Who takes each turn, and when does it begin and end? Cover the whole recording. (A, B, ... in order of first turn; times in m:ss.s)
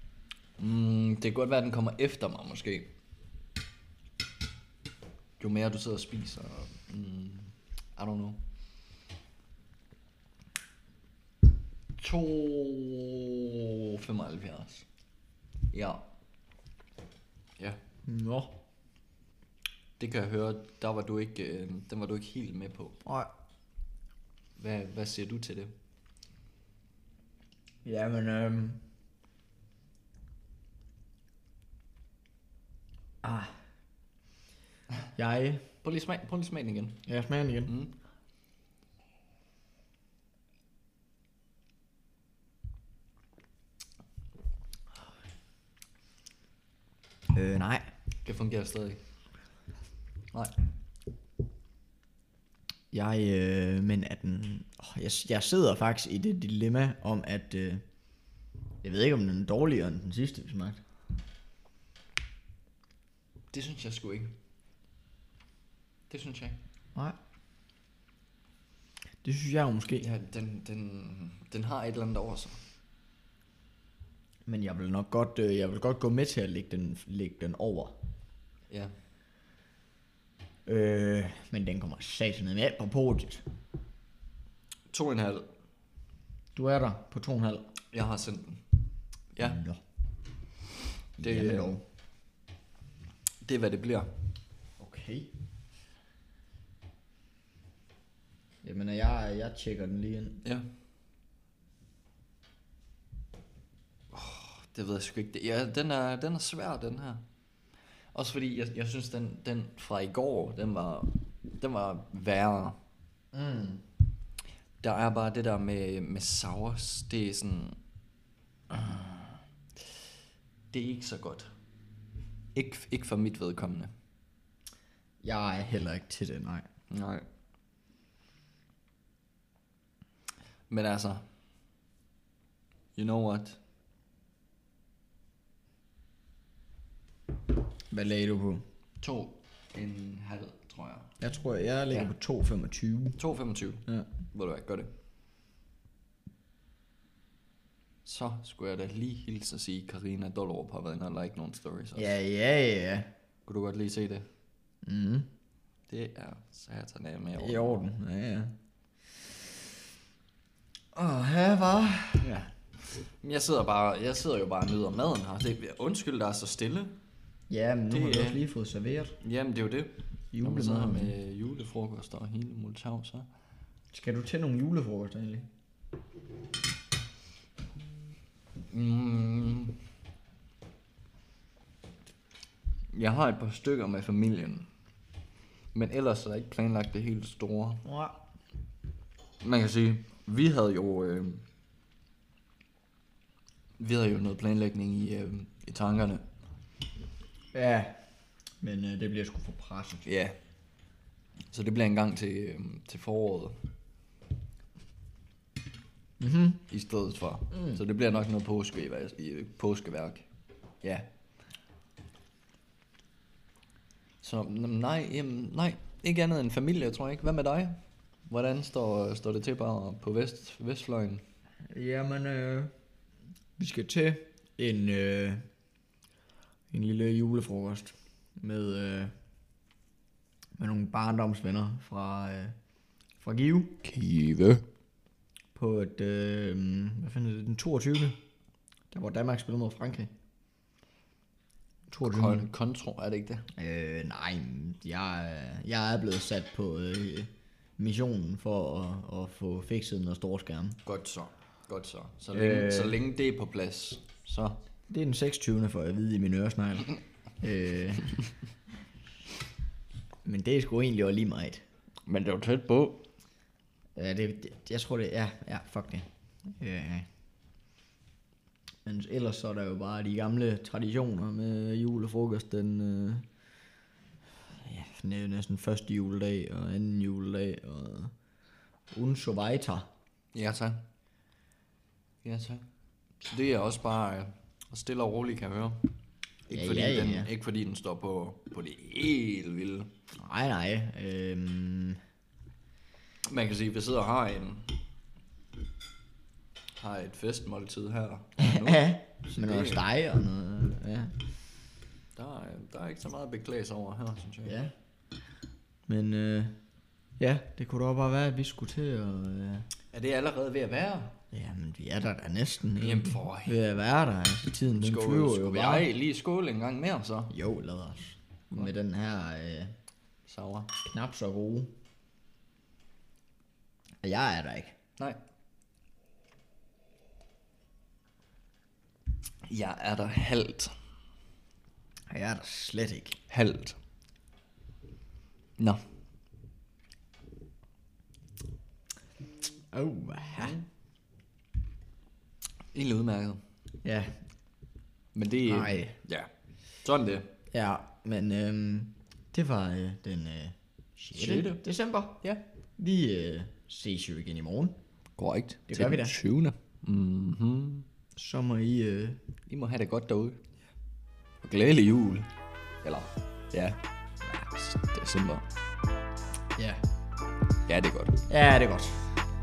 0:00.6-0:02.9 A
0:05.4-0:08.4 A
0:12.0-0:14.8 A
0:15.7-0:16.0 A
0:18.1-0:18.6 B
0:20.0-0:23.0 A
0:23.0-0:23.3 B
0:24.6-0:25.7 A
0:27.8-0:28.8 B
0:33.2-0:33.5 B
0:35.2-0:35.6 B
0:35.8-0:37.1 A
0:37.1-0:37.7 B
0:37.7-0:38.0 A
0:47.3-0:47.8 B
0:48.2-0:49.0 A
0:52.9-0:57.8 B
0:58.8-1:00.8 B
1:03.5-1:04.4 A
1:06.1-1:06.6 A
1:09.2-1:10.1 B
1:10.0-1:12.6 A
1:14.5-1:18.0 B
1:20.7-1:23.4 B
1:24.9-1:25.5 A
1:26.6-1:27.7 B
1:27.9-1:28.6 A
1:29.3-1:29.6 A
1:29.4-1:29.8 B
1:31.2-1:31.8 B
1:31.2-1:31.8 A
1:33.4-1:34.1 A
1:34.8-1:35.3 B
1:38.6-1:40.4 B
1:44.1-1:47.2 A
1:48.1-1:52.8 A
1:53.3-1:53.8 B
1:54.8-1:57.8 A
1:58.7-1:59.2 A
2:00.7-2:01.5 A
2:02.5-2:03.9 A
2:05.2-2:06.7 B
2:06.9-2:07.2 A
2:10.7-2:11.2 A
2:13.0-2:13.6 A
2:17.9-2:18.6 B
2:19.0-2:21.1 A
2:21.2-2:23.2 B
2:23.2-2:24.9 A
2:28.0-2:32.2 A
2:32.0-2:33.1 B
2:33.5-2:34.3 A
2:34.8-2:35.3 B
2:35.9-2:37.9 A
2:37.4-2:38.5 B
2:40.9-2:42.3 B
2:42.2-2:47.0 A
2:47.5-2:49.2 B
2:47.9-2:48.5 A
2:49.2-2:53.3 A
2:50.3-2:51.2 B
2:53.9-2:55.5 B
2:58.7-2:59.8 A
3:02.9-3:04.7 A
3:05.7-3:07.8 A
3:07.8-3:08.2 B
3:09.4-3:11.4 A
3:13.8-3:16.2 A
3:17.5-3:18.0 B
3:18.6-3:20.1 B
3:20.1-3:20.4 A
3:21.5-3:23.5 A
3:26.2-3:26.6 B
3:26.7-3:30.2 A
3:27.5-3:27.8 B
3:30.8-3:31.1 A
3:34.2-3:37.8 A
3:38.3-3:41.2 A
3:41.7-3:42.7 B
3:43.6-3:45.4 B
3:46.7-3:49.1 B
3:50.6-3:52.6 B
3:53.2-3:53.8 B
3:53.8-3:54.6 A
3:55.6-3:58.2 B
3:58.9-4:00.1 B
4:01.9-4:02.5 B
4:02.0-4:03.5 A
4:03.6-4:10.8 B
4:10.8-4:14.6 A
4:12.3-4:13.0 B
4:14.9-4:18.2 B
4:20.2-4:21.6 B
4:22.1-4:23.0 A
4:24.0-4:27.1 B
4:28.8-4:33.3 B
4:34.6-4:38.1 B
4:38.9-4:39.9 B
4:40.3-4:40.8 A
4:42.2-4:42.7 A
4:43.2-4:45.9 A
4:46.5-4:47.3 B
4:46.5-4:49.9 A
4:50.2-4:52.0 B
4:53.3-4:54.7 A
4:56.8-4:59.8 A
4:58.4-5:01.2 B
5:02.2-5:04.6 A
5:04.4-5:04.7 B
5:05.9-5:06.6 B
5:07.2-5:09.7 B
5:09.9-5:11.2 A
5:11.3-5:15.9 B
5:12.8-5:13.6 A
5:14.7-5:17.3 A
5:17.3-5:19.7 B
5:20.3-5:20.7 A
5:20.8-5:21.7 B
5:24.0-5:24.8 B
5:29.5-5:30.7 A
5:32.1-5:33.2 B
5:33.3-5:33.8 A
5:39.7-5:40.6 B
5:42.7-5:43.4 A
5:43.8-5:44.1 B
5:45.2-5:46.3 A
5:45.5-5:46.0 B
5:46.8-5:47.3 A
5:47.5-5:52.2 B
5:51.1-5:51.6 A
5:52.8-5:54.8 B
5:55.2-5:57.8 A
5:55.7-5:56.2 B
5:58.2-5:59.2 B
5:59.5-6:00.4 A
6:01.4-6:02.3 A
6:02.8-6:05.4 A
6:06.6-6:06.8 B
6:07.7-6:08.2 A
6:08.3-6:09.3 B